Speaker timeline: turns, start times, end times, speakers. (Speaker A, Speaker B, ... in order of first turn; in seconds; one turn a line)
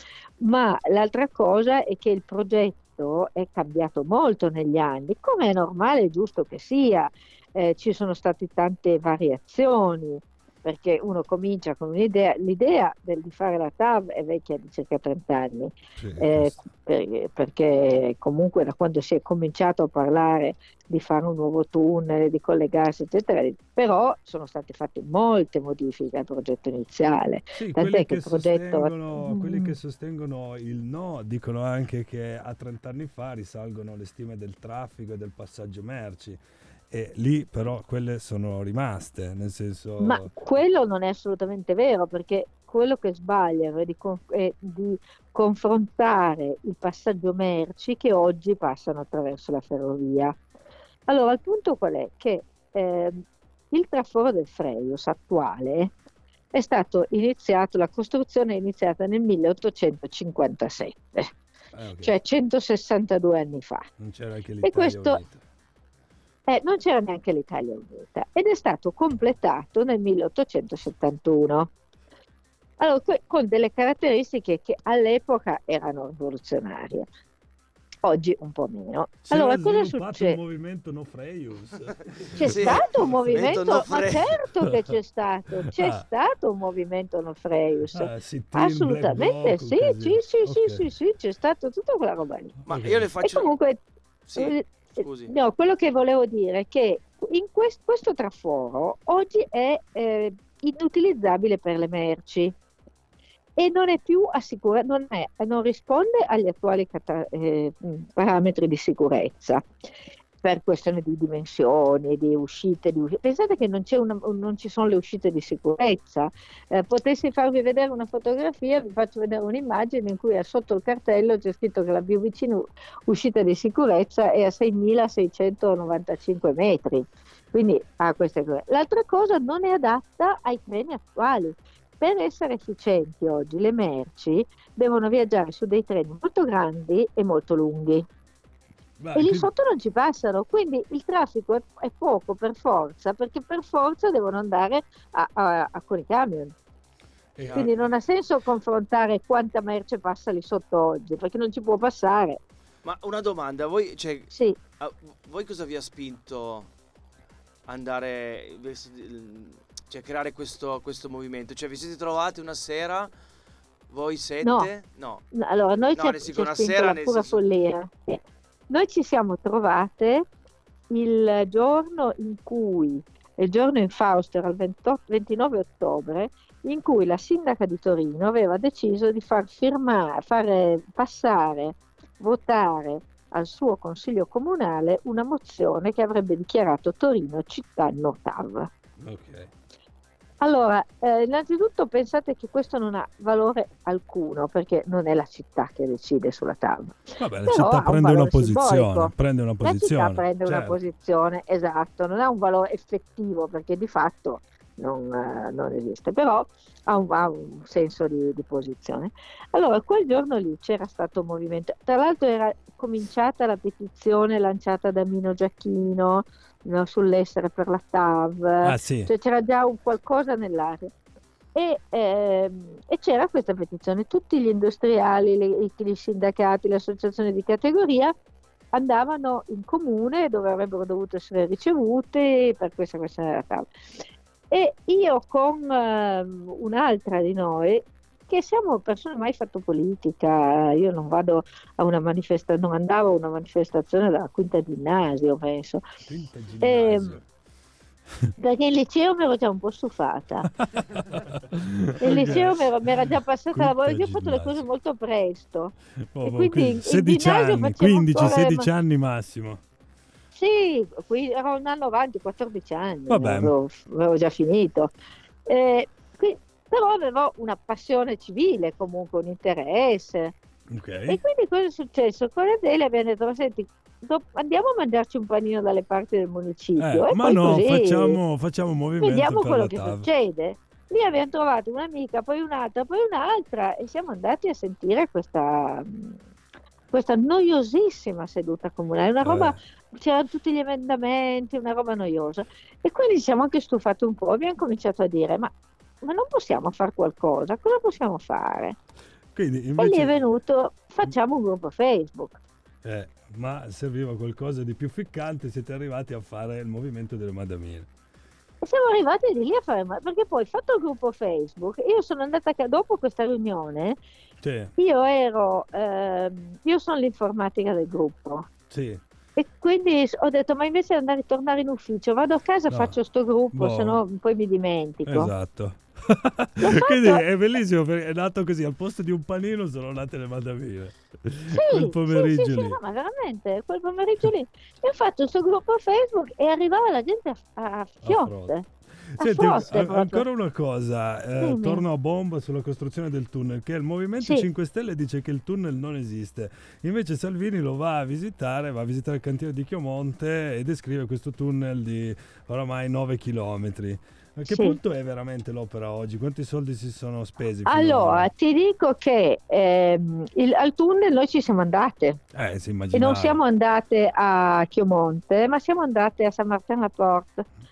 Speaker A: 0.4-29.8
Speaker B: 16.0-16.5
Speaker B: 27.6-40.3
Speaker A: 40.0-50.4
Speaker A: 51.1-55.9
Speaker A: 56.5-61.3
Speaker B: 61.7-62.1
Speaker A: 62.0-63.9
Speaker B: 64.0-65.4
Speaker A: 64.6-65.2
Speaker A: 66.5-71.7
Speaker A: 72.8-77.1
Speaker A: 78.0-80.4
Speaker B: 79.3-83.6
Speaker A: 82.4-92.6
Speaker C: 82.4-84.3
Speaker B: 85.8-86.0
Speaker B: 87.9-90.9
Speaker C: 92.7-93.5
Speaker B: 92.7-93.1
Speaker A: 93.2-93.8
Speaker C: 94.3-95.3
Speaker A: 94.3-94.6
Speaker A: 95.3-102.5
Speaker A: 103.6-109.7
Speaker A: 110.4-138.1
Speaker B: 139.0-139.5
Speaker A: 139.1-146.5
Speaker B: 147.3-147.8
Speaker C: 147.4-147.7
Speaker A: 147.5-152.4
Speaker C: 152.8-156.7
Speaker C: 157.7-163.1
Speaker C: 163.9-165.2
Speaker A: 164.4-164.7
Speaker A: 165.3-170.2
Speaker C: 165.9-167.4
Speaker A: 170.9-188.7
Speaker B: 189.0-189.5
Speaker A: 190.4-220.9
Speaker B: 197.2-200.8
Speaker B: 218.6-219.1
Speaker A: 221.5-228.1
Speaker A: 228.7-233.7
Speaker A: 234.5-245.8
Speaker B: 246.1-247.2
Speaker A: 246.6-247.2
Speaker A: 248.4-250.5
Speaker B: 250.7-254.7
Speaker A: 252.0-258.7
Speaker B: 256.1-259.6
Speaker A: 260.3-264.9
Speaker B: 263.1-263.5
Speaker A: 265.5-270.3
Speaker B: 270.7-271.2
Speaker A: 271.1-278.2
Speaker B: 276.8-280.1
Speaker A: 279.0-286.2
Speaker A: 286.9-298.8
Speaker B: 289.2-289.6
Speaker B: 299.3-300.4
Speaker A: 299.8-302.4
Speaker B: 302.8-307.9
Speaker A: 308.6-314.0
Speaker B: 314.4-314.7
Speaker A: 314.8-318.5
Speaker B: 318.7-319.0
Speaker A: 319.4-325.3
Speaker B: 322.7-322.9
Speaker B: 323.5-324.0
Speaker B: 325.1-332.8
Speaker A: 326.6-327.2
Speaker A: 331.5-338.6
Speaker B: 338.0-358.3
Speaker A: 339.2-340.2
Speaker A: 341.4-341.8
Speaker A: 344.2-344.4
Speaker A: 354.5-354.8
Speaker A: 357.6-362.2
Speaker B: 362.3-363.4
Speaker A: 362.9-367.4